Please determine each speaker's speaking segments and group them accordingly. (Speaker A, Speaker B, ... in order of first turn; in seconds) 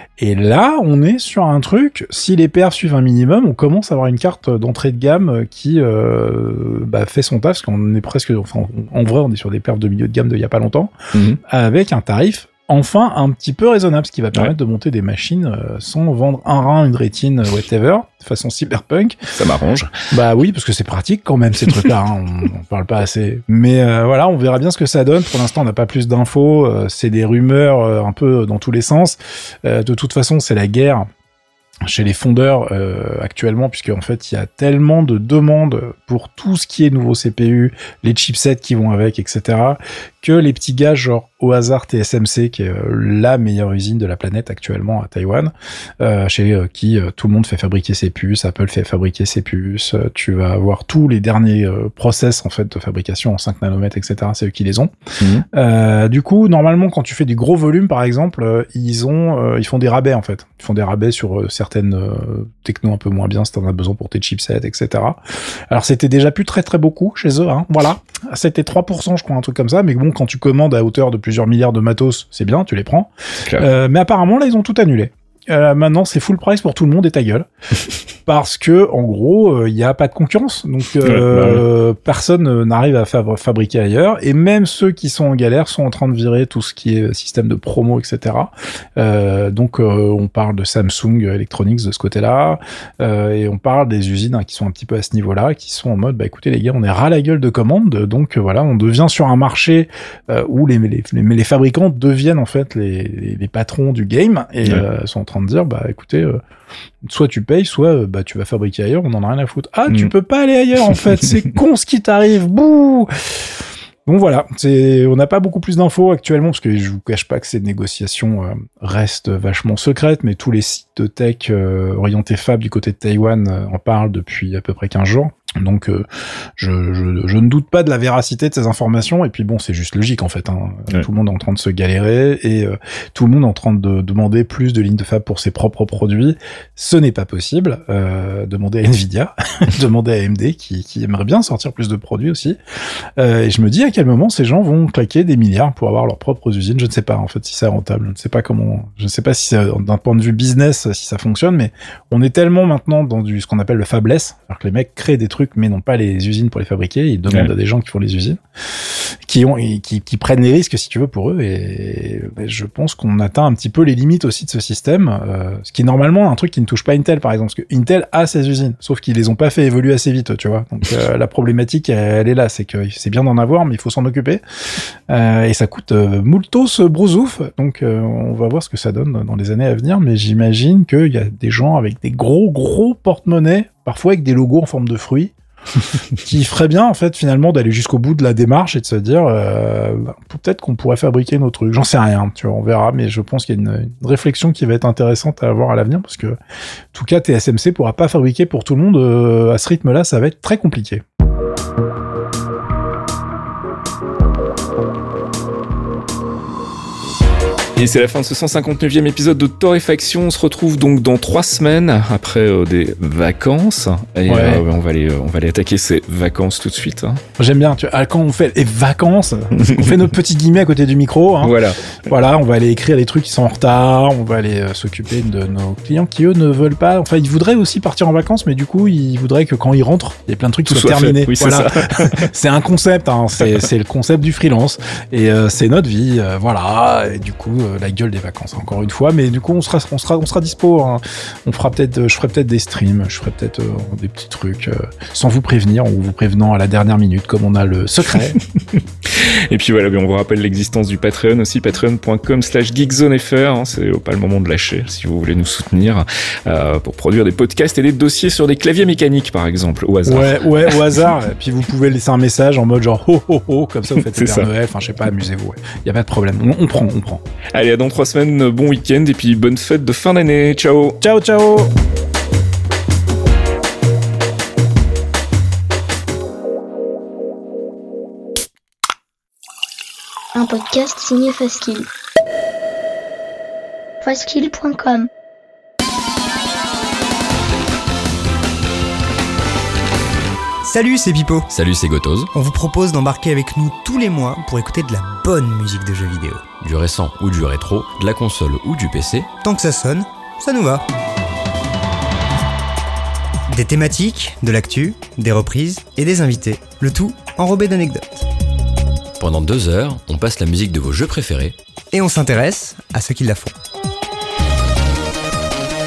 Speaker A: 0.2-19.2, 20.1-31.1, 31.8-54.9, 55.5-77.5, 78.2-106.4, 107.0-113.5, 114.1-142.6, 143.2-158.4, 159.0-174.4, 175.1-185.3, 186.2-196.4, 196.9-201.0, 214.3-214.6, 217.4-248.4, 260.1-267.2, 271.0-271.7
Speaker B: 11.1-11.4, 19.3-20.1, 81.0-81.7, 207.8-217.2, 219.6-219.9, 221.4-221.8, 230.7-232.3, 249.1-260.8, 263.9-264.5, 267.5-271.0
Speaker C: 280.4-281.9, 284.0-285.1
Speaker D: 290.6-291.5, 292.3-296.5, 299.4-300.9, 303.5-308.2, 311.9-313.5
Speaker E: 291.5-292.3, 296.6-299.3, 309.2-311.6